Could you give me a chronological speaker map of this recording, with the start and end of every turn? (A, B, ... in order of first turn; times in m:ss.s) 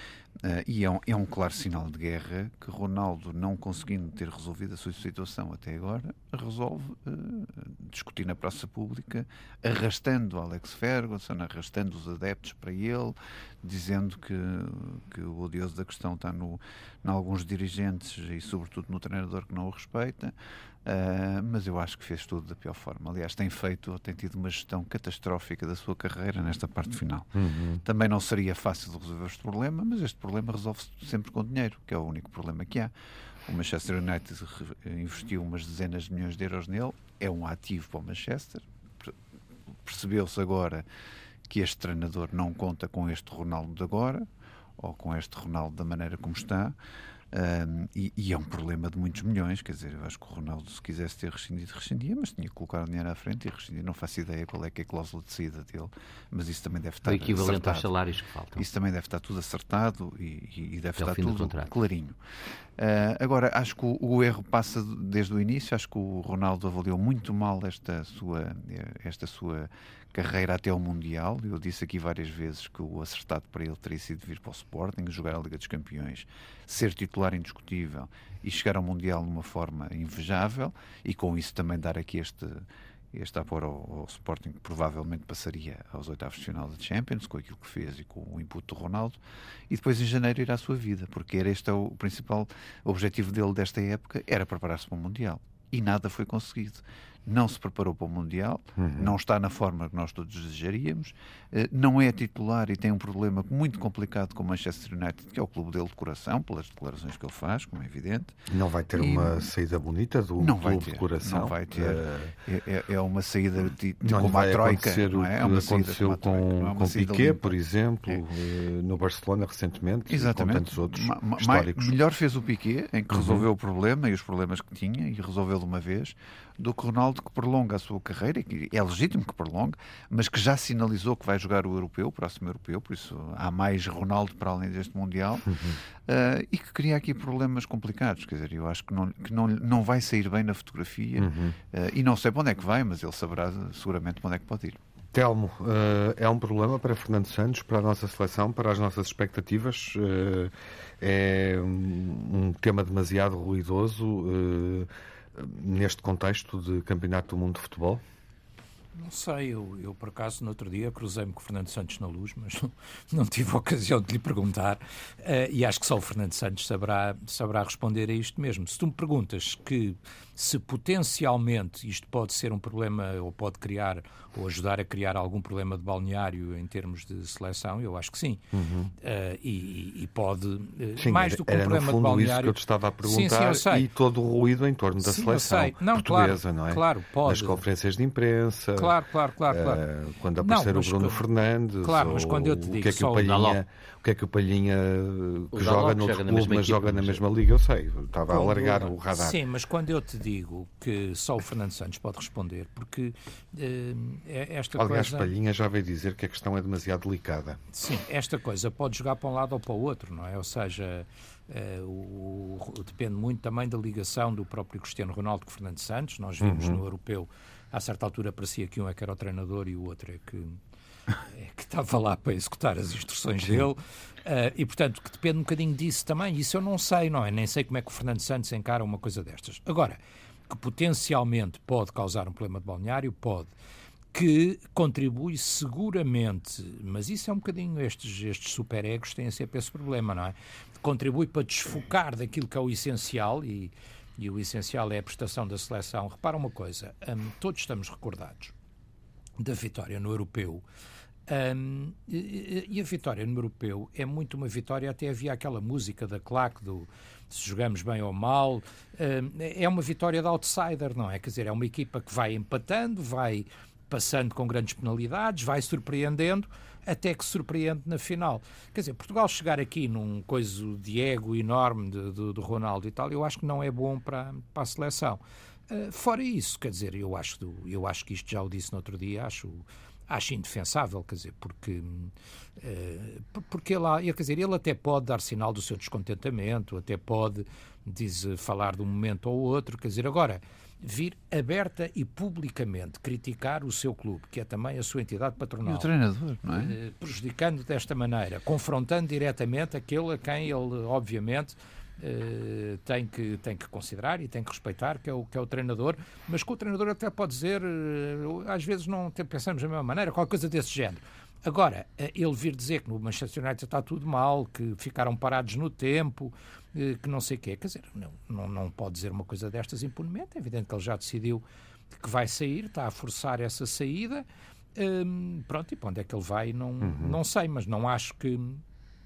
0:00.4-0:32.9 A
0:27.4-0:27.8 B
0:33.5-0:39.2 A
0:39.8-0:40.8 A
0:41.5-0:46.8 A
0:47.3-0:57.9 A
0:57.0-0:58.7 C
0:58.6-1:02.2 A
1:01.0-1:01.7 C
1:02.8-1:48.4 A
1:38.8-1:39.2 B
1:48.5-1:52.3 B
1:49.0-1:49.5 A
1:50.4-1:57.6 A
1:54.0-2:02.0 B
2:00.1-2:15.5 A
2:03.1-2:03.5 B
2:15.5-2:15.8 B
2:16.1-2:24.8 A
2:21.2-2:21.6 B
2:25.1-2:38.0 B
2:39.0-2:58.5 D
2:58.5-2:58.9 B
2:59.0-3:03.9 D
3:01.0-3:09.0 B
3:05.0-3:07.6 D
3:08.8-3:09.8 D
3:09.5-3:19.4 B
3:10.4-3:11.2 D
3:11.8-3:13.5 D
3:13.2-3:13.6 C
3:15.5-3:17.2 C
3:18.3-3:25.3 D
3:24.8-3:27.6 B
3:27.7-3:40.6 D
3:36.4-3:36.8 B
3:41.3-3:53.5 D
3:54.1-4:08.5 D
4:09.4-4:10.6 D
4:11.3-4:55.9 D
4:55.6-4:56.8 A
4:56.5-5:28.6 D
5:26.8-5:27.2 B